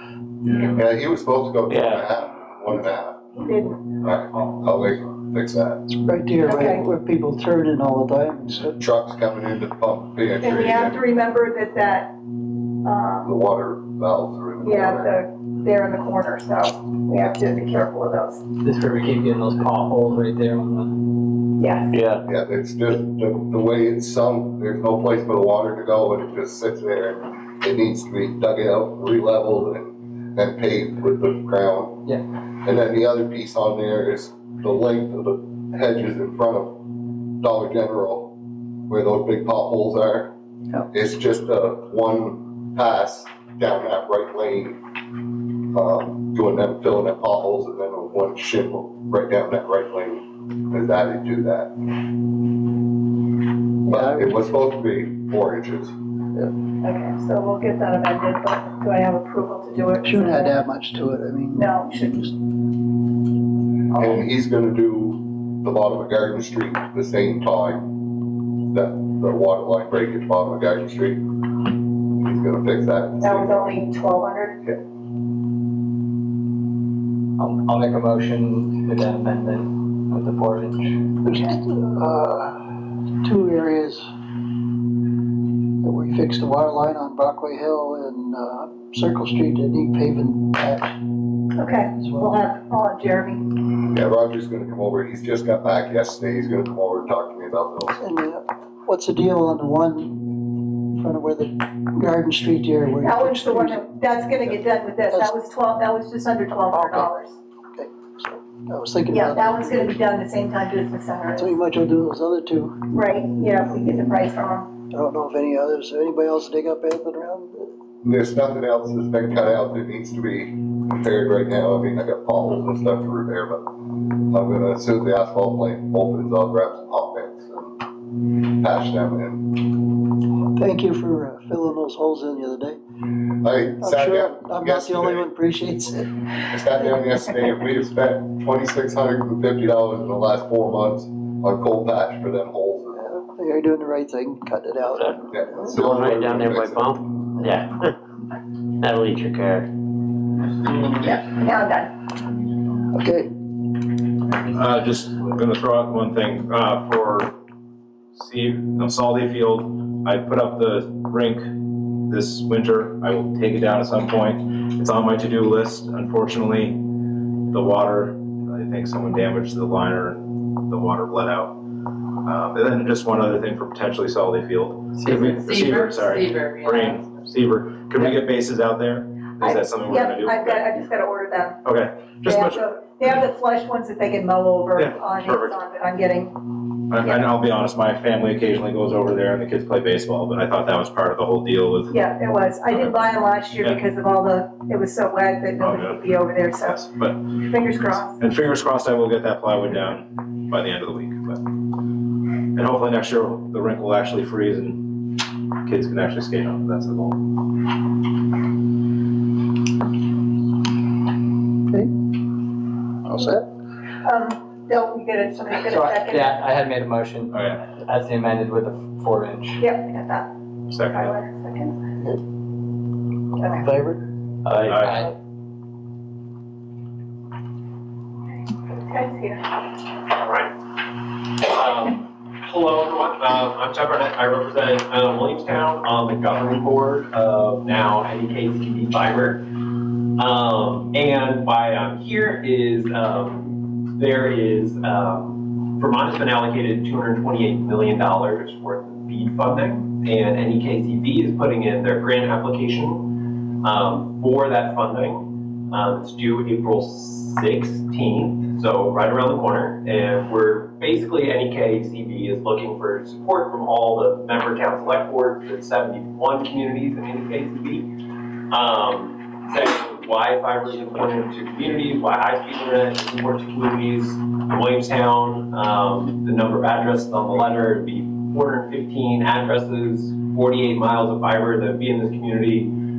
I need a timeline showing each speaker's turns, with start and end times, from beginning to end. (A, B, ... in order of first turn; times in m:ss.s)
0:00.6-0:03.3 A
0:01.7-0:02.0 B
0:03.4-0:03.8 C
0:04.0-0:05.8 A
0:05.9-0:08.8 D
0:06.4-0:06.8 C
0:08.8-0:11.0 A
0:10.4-0:12.1 C
0:12.8-0:13.3 C
0:13.2-0:15.2 A
0:14.6-0:18.4 C
0:18.6-0:21.0 E
0:21.6-0:21.9 C
0:21.9-0:22.2 B
0:22.2-0:32.0 A
0:32.6-0:36.8 A
0:37.4-0:38.3 A
0:38.9-0:40.3 A
0:40.9-0:44.8 A
0:45.7-0:51.7 A
0:53.8-0:55.9 A
0:53.9-0:54.4 D
0:56.8-1:00.6 C
1:00.0-1:02.3 D
1:01.5-1:02.3 C
1:03.9-1:07.9 A
1:08.7-1:11.2 A
1:12.2-1:13.9 A
1:13.2-1:14.6 C
1:17.4-1:20.9 E
1:21.2-1:22.7 D
1:23.2-1:24.1 D
1:25.8-1:31.0 D
1:31.6-1:33.5 C
1:32.0-1:32.3 D
1:33.9-1:38.0 A
1:38.0-1:40.4 D
1:40.9-1:43.9 D
1:43.0-1:47.4 C
1:46.7-1:47.1 D
1:47.8-1:50.0 D
1:49.1-1:51.6 C
1:51.4-1:52.7 D
1:52.9-1:54.7 C
1:54.9-1:57.7 D
1:58.0-2:03.7 A
2:04.3-2:07.7 A
2:08.5-2:09.6 A
2:10.6-2:12.8 D
2:13.4-2:15.3 A
2:13.8-2:16.1 D
2:16.5-2:23.1 A
2:23.0-2:25.8 D
2:25.0-2:27.9 B
2:25.3-2:27.0 A
2:28.8-2:29.7 B
2:30.9-2:31.9 C
2:32.9-2:33.3 D
2:34.4-2:37.3 F
2:38.1-2:41.5 F
2:42.1-2:46.8 F
2:47.5-2:51.6 F
2:52.2-3:00.7 F
2:59.4-3:01.6 C
3:01.6-3:03.2 F
3:02.2-3:06.4 C
3:04.8-3:05.6 F
3:06.9-3:12.0 F
3:07.0-3:07.3 C
3:11.9-3:18.2 C
3:12.7-3:13.8 F
3:15.6-3:17.3 F
3:18.2-3:21.4 F
3:22.6-3:25.0 F
3:25.6-3:27.2 F
3:33.0-3:33.5 D
3:34.0-3:36.4 C
3:35.6-3:39.6 E
3:37.3-3:37.6 F
3:39.6-3:41.8 C
3:40.7-3:41.2 F
3:43.4-3:43.6 C
3:43.5-3:44.0 D
3:44.5-3:45.1 E
3:44.5-3:44.8 B
3:44.7-3:45.1 F
3:48.7-3:49.5 C
3:50.1-3:50.6 G
3:51.2-3:59.4 G
4:00.2-4:27.9 G
4:28.5-4:42.8 G